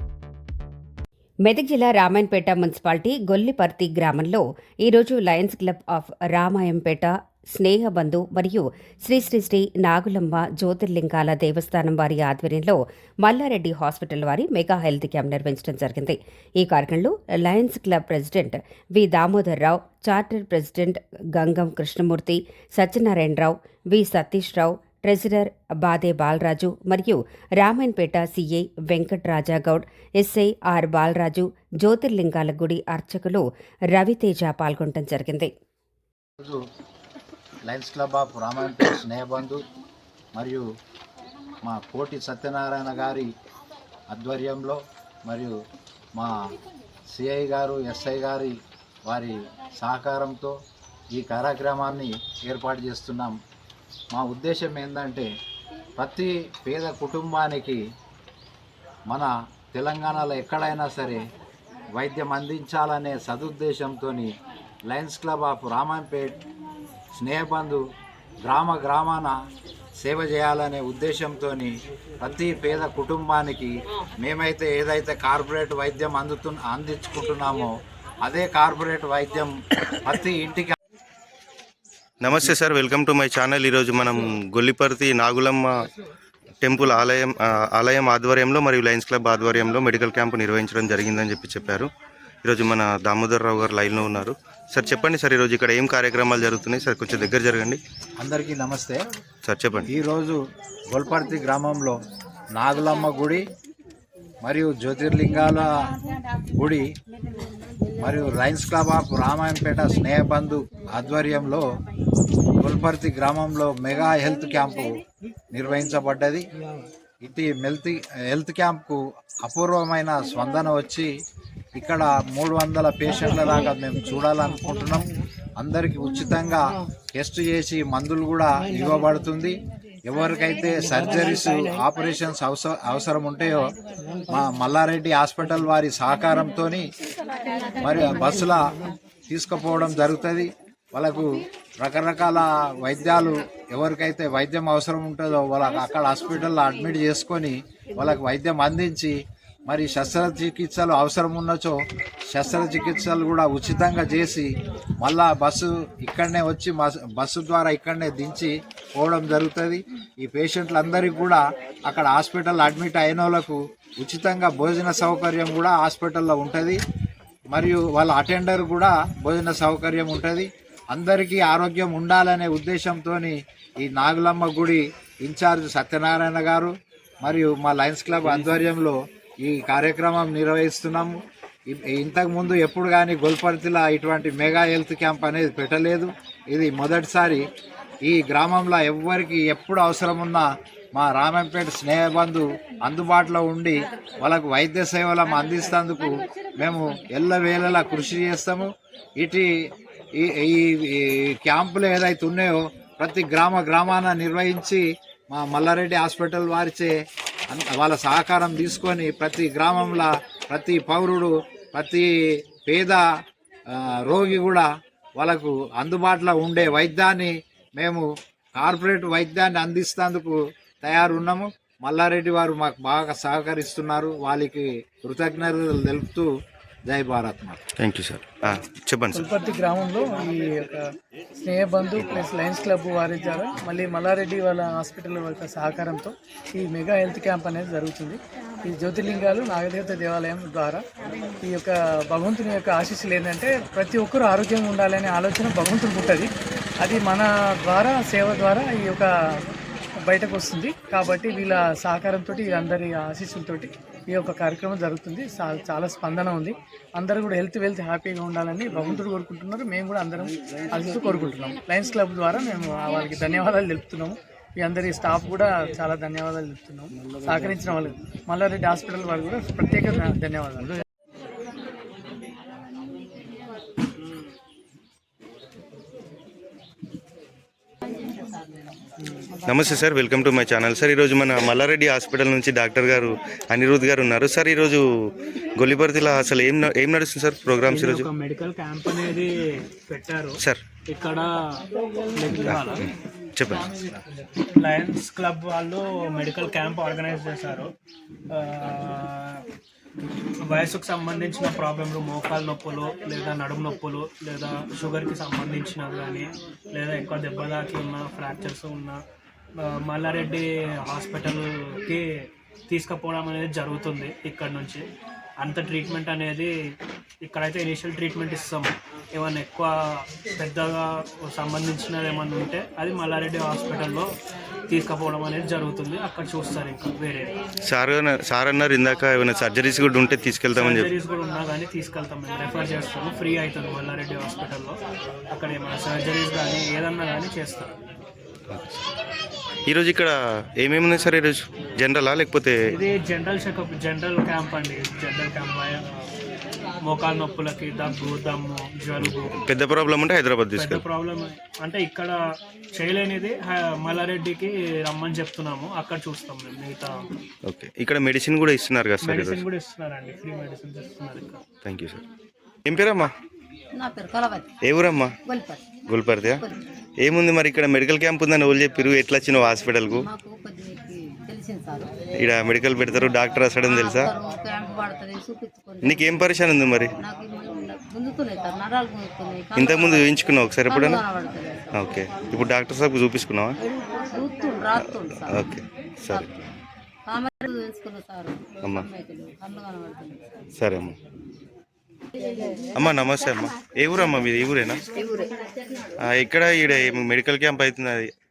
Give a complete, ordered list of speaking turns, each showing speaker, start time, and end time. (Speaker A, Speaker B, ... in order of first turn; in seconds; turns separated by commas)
Speaker A: 1.5-33.4, Speaker A: 33.9-35.5, Speaker B: 37.7-39.6, Speaker B: 40.4-40.6, Speaker B: 41.6-43.3, Speaker B: 44.1-45.5, Speaker B: 47.1-48.5, Speaker B: 49.1-50.5, Speaker B: 51.1-53.4, Speaker B: 54.1-55.3, Speaker B: 56.0-57.8, Speaker B: 59.1-61.2, Speaker B: 62.0-64.3, Speaker B: 64.9-66.4, Speaker B: 67.2-67.8, Speaker B: 68.4-69.3, Speaker B: 70.0-77.7, Speaker B: 78.2-79.5, Speaker B: 80.0-80.8, Speaker C: 82.2-85.7, Speaker C: 86.6-91.9, Speaker C: 92.4-97.8, Speaker B: 98.2-99.0, Speaker C: 99.5-99.9, Speaker B: 99.9-100.4, Speaker B: 100.9-102.0, Speaker B: 102.6-103.4, Speaker B: 104.4-105.9, Speaker B: 106.6-106.9, Speaker B: 108.0-111.6, Speaker B: 112.6-116.4, Speaker B: 117.2-121.1, Speaker B: 121.7-133.7, Speaker B: 134.3-136.8, Speaker B: 137.8-138.7, Speaker B: 139.3-149.2, Speaker B: 149.7-151.8, Speaker B: 152.3-166.8, Speaker B: 167.5-176.7, Speaker B: 177.2-181.2, Speaker B: 181.7-187.4, Speaker B: 188.1-199.5, Speaker B: 200.2-206.9, Speaker B: 207.5-212.1, Speaker B: 212.7-213.0, Speaker B: 213.7-214.7, Speaker B: 215.2-218.0, Speaker B: 218.6-226.3, Speaker B: 226.9-227.6, Speaker C: 227.8-229.3, Speaker D: 229.2-230.4, Speaker D: 231.5-236.1, Speaker D: 236.6-238.2, Speaker D: 238.7-240.8, Speaker D: 241.5-246.3, Speaker D: 246.8-249.0, Speaker D: 250.1-264.1, Speaker D: 264.7-270.6, Speaker C: 279.5-284.8, Speaker C: 285.6-288.1, Speaker E: 287.7-291.6, Speaker E: 292.2-292.9, Speaker C: 293.4-293.7, Speaker E: 294.5-297.7, Speaker E: 298.3-299.4, Speaker E: 300.4-309.0, Speaker E: 309.6-314.9, Speaker E: 315.4-316.5, Speaker E: 317.2-324.1, Speaker E: 324.7-327.3, Speaker C: 327.7-330.9, Speaker E: 330.5-334.8, Speaker E: 335.3-337.7, Speaker C: 338.5-338.8, Speaker C: 339.7-342.6, Speaker E: 342.7-346.1, Speaker E: 346.8-349.3, Speaker C: 349.0-350.8, Speaker E: 350.5-352.2, Speaker E: 352.7-357.0, Speaker C: 357.5-359.4, Speaker E: 359.0-361.4, Speaker C: 361.6-362.0, Speaker C: 362.7-363.1, Speaker F: 363.8-364.5, Speaker C: 364.6-365.2, Speaker F: 365.3-365.6, Speaker C: 365.9-366.4, Speaker F: 366.2-366.6, Speaker C: 367.0-370.1, Speaker F: 369.9-371.9, Speaker C: 372.2-374.1, Speaker F: 373.6-380.1, Speaker C: 375.8-376.9, Speaker C: 379.6-381.0, Speaker F: 380.6-381.9, Speaker C: 381.8-383.6, Speaker F: 384.0-385.6, Speaker C: 385.1-386.3, Speaker F: 386.1-386.4, Speaker F: 387.1-390.2, Speaker C: 390.6-390.9, Speaker C: 392.8-394.9, Speaker F: 394.9-395.3, Speaker C: 396.0-398.1